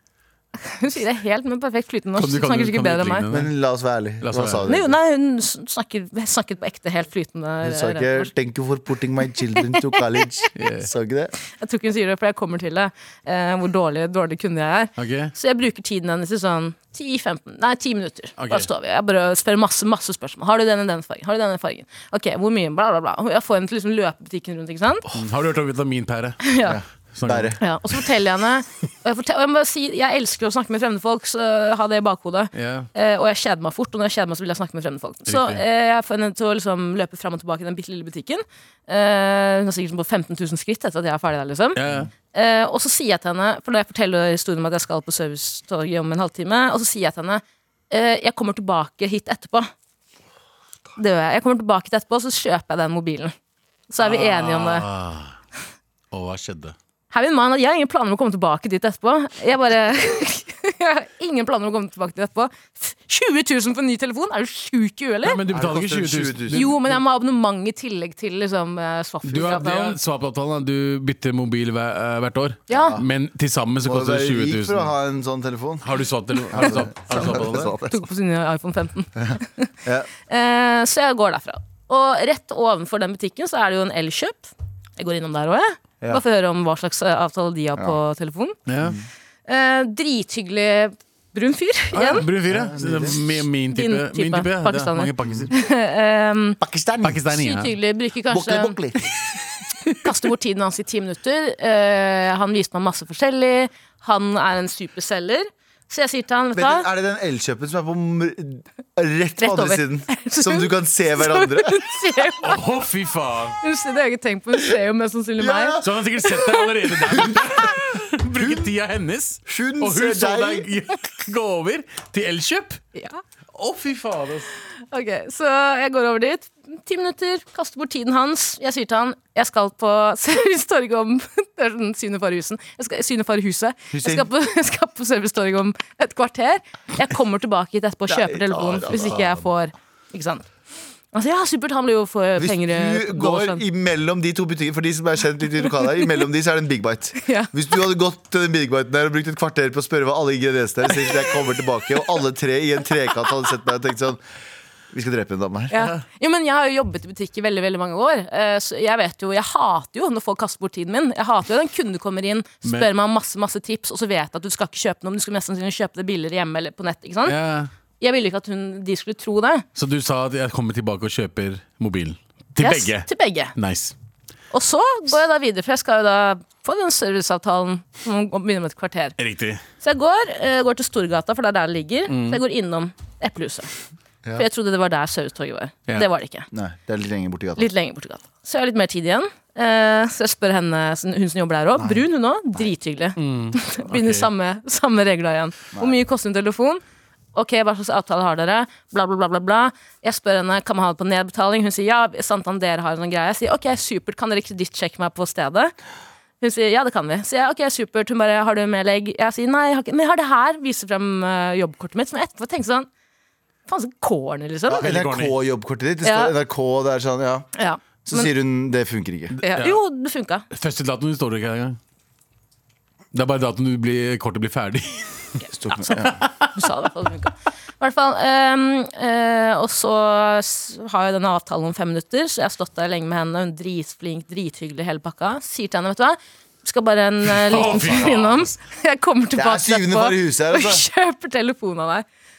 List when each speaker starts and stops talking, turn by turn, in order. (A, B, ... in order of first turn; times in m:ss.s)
0:00.6-0:03.3 A
0:02.2-0:03.5 B
0:03.3-0:05.0 C
0:04.2-0:04.7 B
0:04.7-0:08.3 A
0:07.6-0:11.3 C
0:09.8-0:10.2 A
0:10.6-0:10.9 B
0:11.5-0:25.0 A
0:15.0-0:15.3 B
0:18.4-0:18.7 B
0:25.1-0:26.5 B
0:26.4-0:26.8 A
0:26.6-0:27.6 C
0:27.1-0:27.6 B
0:27.6-0:41.8 A
0:32.6-0:32.9 B
0:35.3-0:35.6 B
0:41.8-0:42.1 B
0:42.3-0:49.7 A
0:51.0-0:53.3 A
0:53.9-0:54.9 A
0:54.0-0:55.4 B
0:56.1-0:56.8 B
0:57.1-1:05.4 A
1:05.2-1:06.7 B
1:05.5-1:06.8 C
1:06.5-1:10.0 A
1:09.2-1:14.9 B
1:12.7-1:13.0 A
1:12.7-1:13.1 C
1:13.8-1:15.9 C
1:15.8-1:17.7 B
1:16.5-1:18.0 C
1:17.8-1:19.7 A
1:19.2-1:20.1 C
1:20.3-1:28.6 A
1:28.7-1:29.0 B
1:29.5-1:32.3 A
1:31.9-1:35.5 B
1:32.4-1:33.4 C
1:33.7-1:36.6 A
1:36.6-1:37.3 C
1:37.0-1:37.7 B
1:37.3-1:38.8 A
1:38.3-1:39.0 C
1:40.0-1:46.9 A
1:46.5-1:51.9 C
1:49.4-1:52.6 A
1:52.4-1:53.6 B
1:53.6-1:56.6 A
1:55.4-1:56.1 C
1:55.8-2:02.8 B
1:57.1-1:57.8 C
1:58.4-1:58.7 C
1:59.5-2:00.7 C
2:03.0-2:03.2 A
2:03.6-2:04.5 B
2:04.9-2:20.5 A
2:13.9-2:14.3 C
2:18.1-2:19.4 C
2:21.1-2:23.6 A
2:22.4-2:34.2 C
2:27.2-2:27.5 A
2:34.9-2:35.7 C
2:35.7-2:47.4 A
2:47.3-2:47.7 B
2:48.0-2:49.6 A
2:49.8-2:53.9 B
2:52.6-2:53.5 A
2:54.5-2:59.2 A
2:59.2-2:59.6 B
2:59.8-3:03.7 A
3:02.1-3:02.4 B
3:04.4-3:06.5 A
3:06.5-3:07.7 C
3:07.6-3:16.8 A
3:11.8-3:12.0 C
3:13.2-3:14.3 B
3:17.3-3:25.7 A
3:26.4-3:32.9 A
3:33.7-3:34.9 A
3:34.7-3:37.5 C
3:34.7-3:35.3 B
3:36.0-3:36.3 A
3:37.6-3:38.3 A
3:38.1-3:39.4 C
3:39.4-3:39.8 B
3:39.4-3:40.4 A
3:40.5-3:41.8 B
3:43.1-3:45.3 B
3:45.5-3:46.2 C
3:45.8-4:02.0 A
3:46.0-3:46.3 B
3:57.3-3:58.5 B
3:59.4-4:00.8 C